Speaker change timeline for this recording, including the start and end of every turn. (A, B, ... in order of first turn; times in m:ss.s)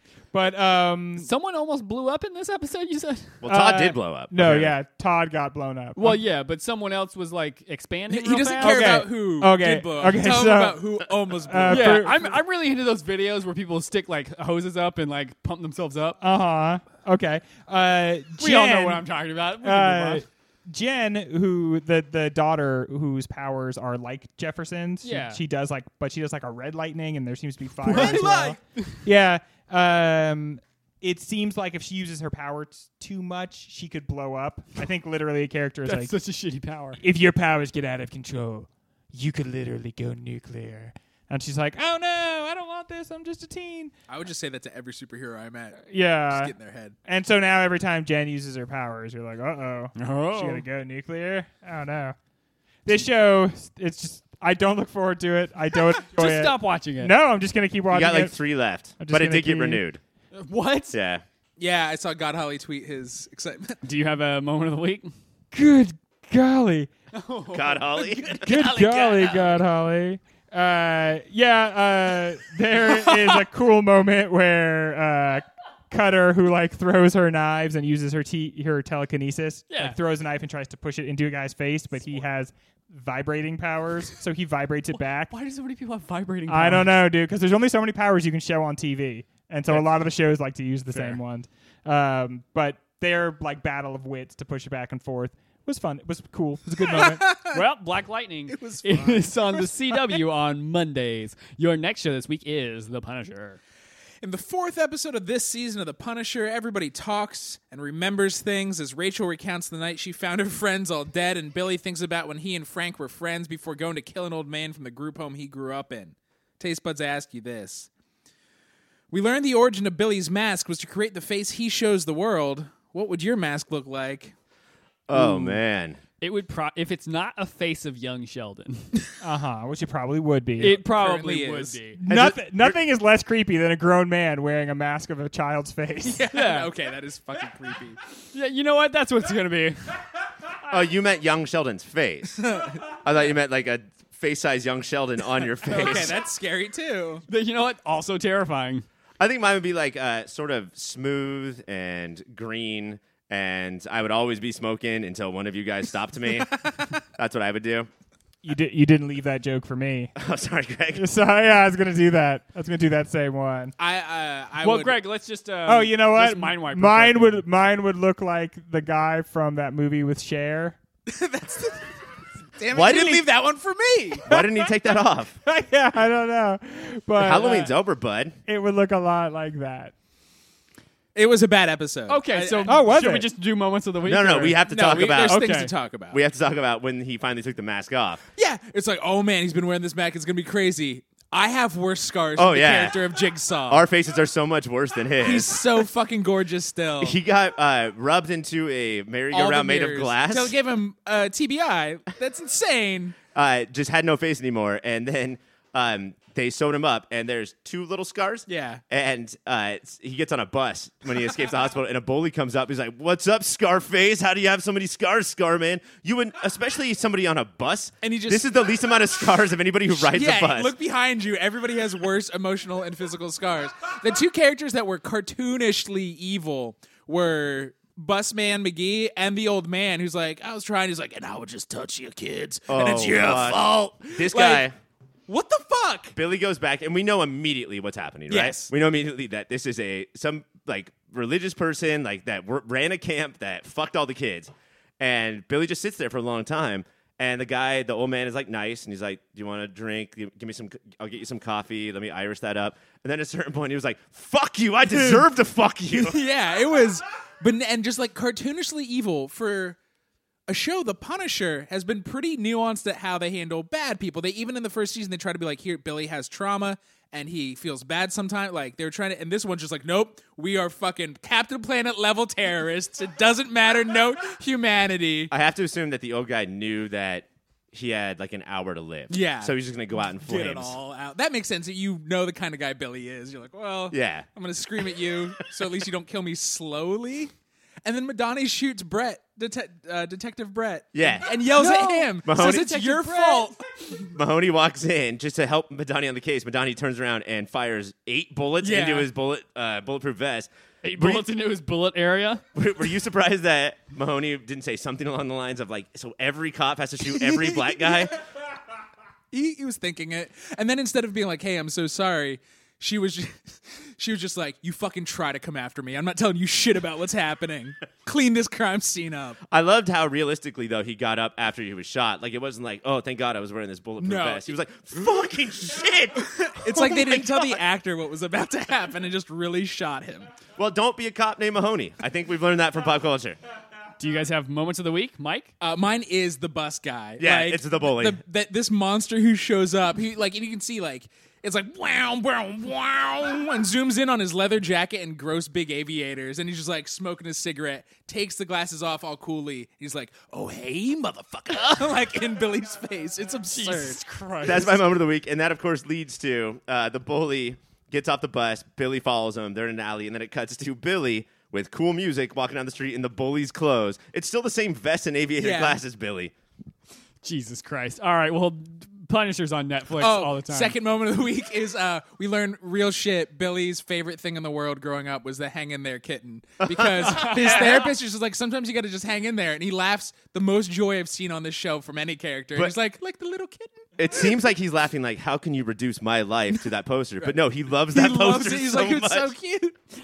0:00.3-0:01.3 A
0:01.2-0:03.4 B
0:03.4-0:04.8 C
0:03.5-0:06.2 A
0:06.0-0:09.1 B
0:08.1-0:12.3 D
0:08.6-0:10.8 A
0:11.4-0:12.2 A
0:11.7-0:16.2 B
0:16.2-0:19.0 A
0:18.4-0:20.2 B
0:19.6-0:36.1 A
0:25.0-0:25.4 B
0:27.8-0:29.0 B
0:27.9-0:28.6 D
0:35.8-0:37.0 B
0:37.0-0:43.9 A
0:44.1-0:46.9 D
0:45.8-0:46.5 A
0:47.0-0:52.2 A
0:50.0-0:50.6 B
0:52.8-0:58.3 A
0:56.1-0:57.1 B
0:57.9-1:00.0 C
0:59.0-0:59.8 A
1:00.3-1:01.0 B
1:00.9-1:01.2 C
1:01.6-1:03.8 D
1:03.8-1:05.1 B
1:05.5-1:06.9 A
1:07.1-1:08.1 B
1:07.5-1:08.5 C
1:08.0-1:09.6 D
1:08.4-1:25.3 A
1:12.9-1:13.4 D
1:19.7-1:20.0 B
1:25.3-1:27.0 B
1:26.5-1:37.3 A
1:29.7-1:29.9 B
1:30.9-1:31.2 B
1:36.8-1:37.6 D
1:37.4-1:43.6 B
1:38.5-1:40.2 D
1:44.2-1:57.9 D
1:59.1-2:04.3 D
2:05.1-2:06.0 C
2:05.1-2:05.6 B
2:06.2-2:09.0 B
2:09.2-2:10.8 A
2:10.6-2:11.8 D
2:10.6-2:12.0 B
2:12.0-2:16.3 A
2:12.1-2:12.8 C
2:16.0-2:18.0 D
2:16.3-2:16.7 B
2:18.3-2:19.9 B
2:20.7-2:26.2 C
2:22.4-2:22.9 D
2:25.6-2:27.2 D
2:27.3-2:28.8 B
2:29.2-2:37.9 C
2:38.4-2:40.1 A
2:40.2-2:41.1 C
2:40.9-2:43.7 A
2:43.8-2:44.9 D
2:44.6-2:47.4 B
2:45.6-2:50.8 A
2:51.1-2:51.9 D
2:52.6-2:54.3 D
2:52.7-2:53.3 C
2:54.2-2:55.4 C
2:54.3-2:54.8 A
2:55.4-2:57.7 A
2:57.1-2:58.4 C
2:58.4-2:59.9 A
3:01.1-3:02.9 D
3:02.1-3:04.6 B
3:02.6-3:03.3 A
3:04.0-3:05.5 C
3:04.7-3:06.2 D
3:05.2-3:05.7 B
3:06.1-3:08.2 C
3:08.4-3:13.8 D
3:12.4-3:13.0 C
3:13.7-3:15.6 C
3:15.2-3:17.2 D
3:17.0-3:20.5 C
3:19.3-3:23.2 D
3:23.3-3:40.7 C
3:28.5-3:28.8 D
3:38.0-3:38.5 D
3:39.9-3:54.7 D
3:52.7-3:54.7 C
3:55.3-3:56.2 D
3:56.1-4:16.2 C
3:58.3-3:58.7 D
4:14.9-4:15.2 D
4:15.9-4:19.8 D
4:20.5-4:35.3 D
4:35.3-4:40.8 C
4:39.1-4:39.5 D
4:40.1-4:47.3 D
4:43.9-4:44.2 C
4:47.8-4:53.6 D
4:50.9-4:51.3 C
4:51.5-4:53.6 B
4:52.2-4:52.7 C
4:54.1-5:01.2 C
4:58.6-4:59.1 D
5:00.8-5:02.4 B
5:02.5-5:08.2 C
5:07.3-5:07.7 D
5:09.3-5:19.4 D
5:19.5-5:27.6 C
5:24.0-5:24.5 D
5:26.2-5:30.3 D
5:30.6-5:33.4 C
5:34.0-5:35.5 B
5:35.6-5:54.6 D
5:37.2-5:38.2 C
5:53.5-5:54.8 B
5:54.4-6:06.3 C
6:05.4-6:05.8 D
6:07.2-6:10.7 B
6:10.0-6:23.9 D
6:16.6-6:17.4 C
6:17.0-6:17.9 B
6:24.0-6:29.3 C
6:27.9-6:29.8 D